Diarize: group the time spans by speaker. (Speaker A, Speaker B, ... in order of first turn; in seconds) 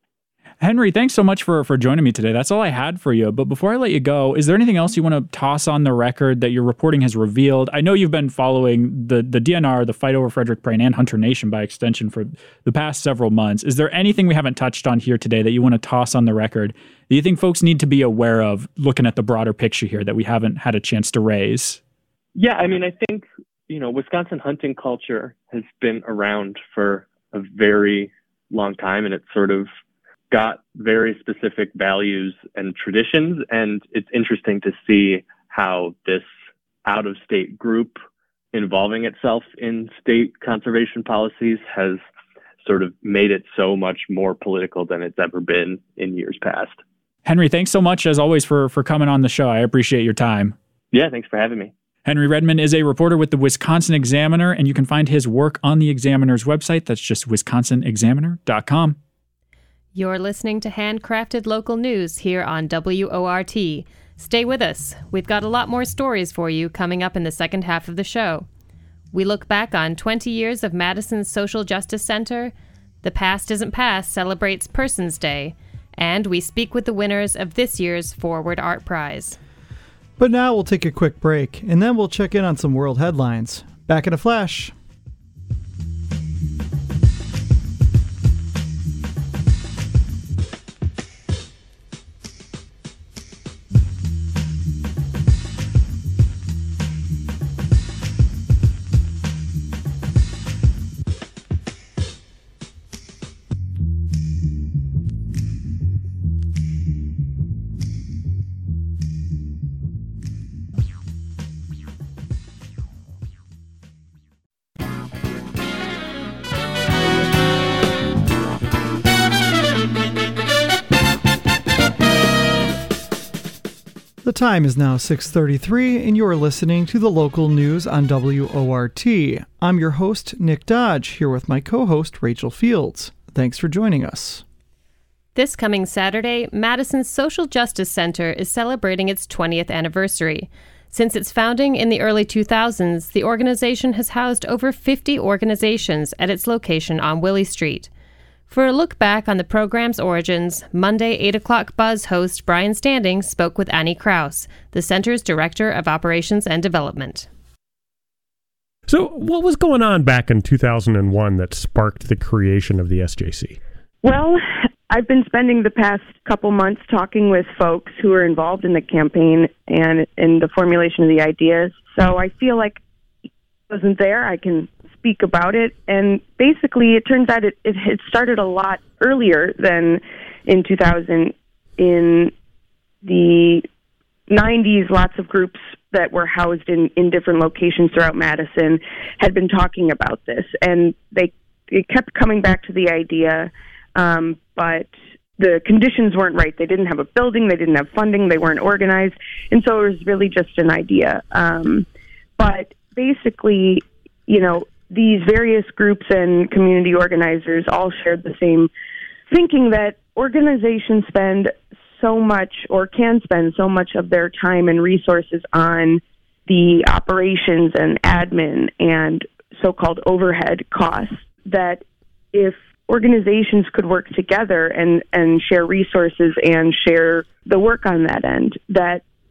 Speaker A: 0.6-21.8, 47.2-50.5, 52.0-59.0
Speaker B: 22.4-29.7, 30.3-36.3, 36.9-38.0, 38.5-42.0, 42.6-46.8, 50.9-51.7
Speaker C: 59.9-68.5, 69.1-79.4, 135.3-147.9, 148.5-157.3
Speaker D: 80.2-84.7, 124.2-134.4
Speaker E: 158.9-163.6
Speaker F: 164.0-172.8, 173.7-182.3, 183.0-183.7, 184.3-201.9, 202.4-208.7, 209.3-229.0